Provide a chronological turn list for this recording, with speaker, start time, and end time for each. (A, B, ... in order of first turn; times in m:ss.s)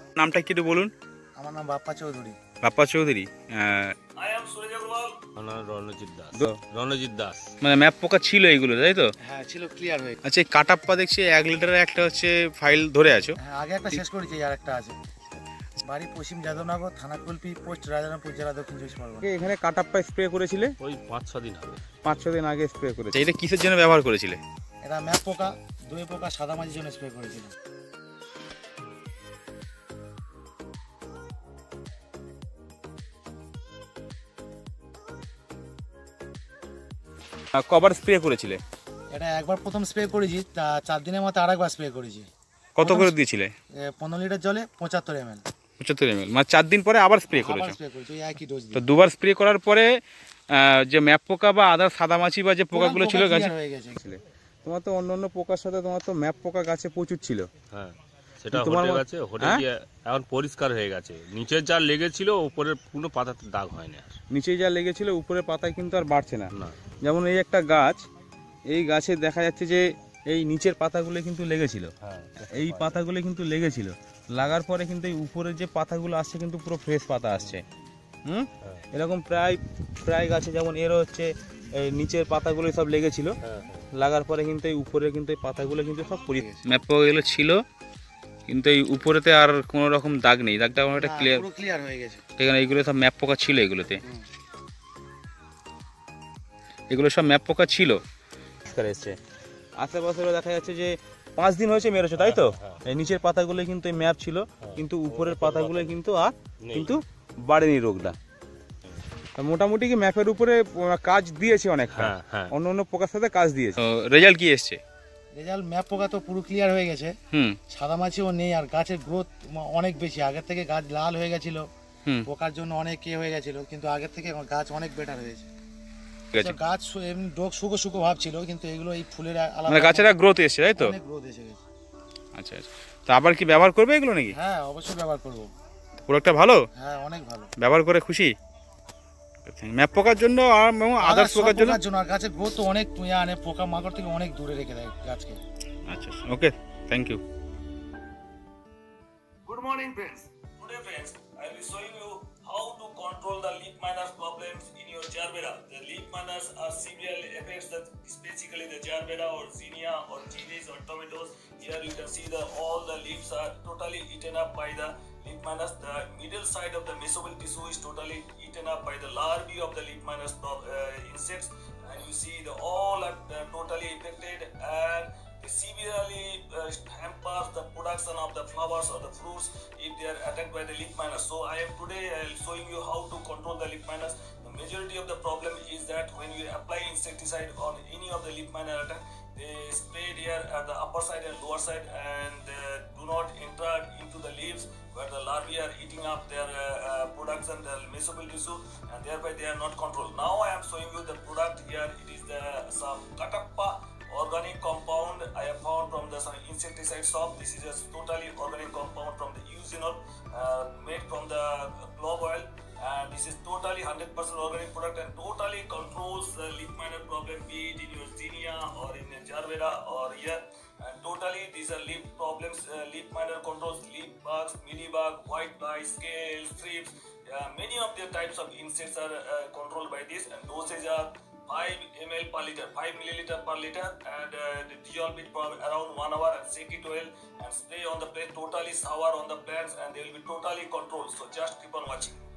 0:00.2-0:00.7 A
0:01.4-0:02.3 B
0:02.6-0:03.9 A
0:04.2-0:05.2 C
0:05.4-0:07.5 D
0:07.6-0:09.1 A
0:09.2-0:10.2 B
0:10.2-0:13.3 A
0:13.4-0:14.9 B
0:15.8-0:19.3 B
0:19.2-0:20.7 A
0:20.8-0:21.9 D
0:22.0-0:24.4 A
0:24.8-0:27.5 B
0:37.5-0:38.6 A
0:39.1-0:42.3 B
0:42.8-0:43.5 A
0:42.8-0:43.1 B
0:43.8-0:45.4 B
0:45.8-0:47.8 A
0:47.3-0:48.8 B
0:48.7-0:49.9 A
0:50.5-0:57.4 A
0:52.7-0:54.0 B
0:57.7-1:04.2 D
0:58.5-0:59.6 A
1:04.3-1:06.5 A
1:06.5-1:06.8 D
1:07.0-1:08.0 A
1:08.7-1:11.9 A
1:12.0-1:13.0 D
1:12.5-1:17.6 A
1:18.2-1:23.4 A
1:23.4-1:23.9 D
1:23.9-1:27.6 A
1:26.3-1:26.6 B
1:28.5-1:31.4 A
1:30.9-1:32.2 B
1:32.4-1:34.0 A
1:36.9-1:38.0 A
1:38.7-1:39.1 A
1:39.8-1:48.2 A
1:42.2-1:42.8 D
1:44.6-1:46.0 D
1:46.6-1:47.0 D
1:49.4-1:54.8 A
1:51.9-1:52.5 D
1:55.3-1:57.1 B
1:57.3-1:57.6 A
1:57.7-2:01.6 B
2:02.2-2:05.5 B
2:06.3-2:10.1 B
2:09.7-2:10.9 A
2:10.8-2:11.6 B
2:12.3-2:14.4 A
2:14.3-2:15.5 B
2:16.1-2:16.6 A
2:16.8-2:17.5 B
2:17.6-2:18.3 A
2:19.4-2:21.8 A
2:21.0-2:25.4 B
2:25.9-2:27.2 A
2:29.4-4:02.2 C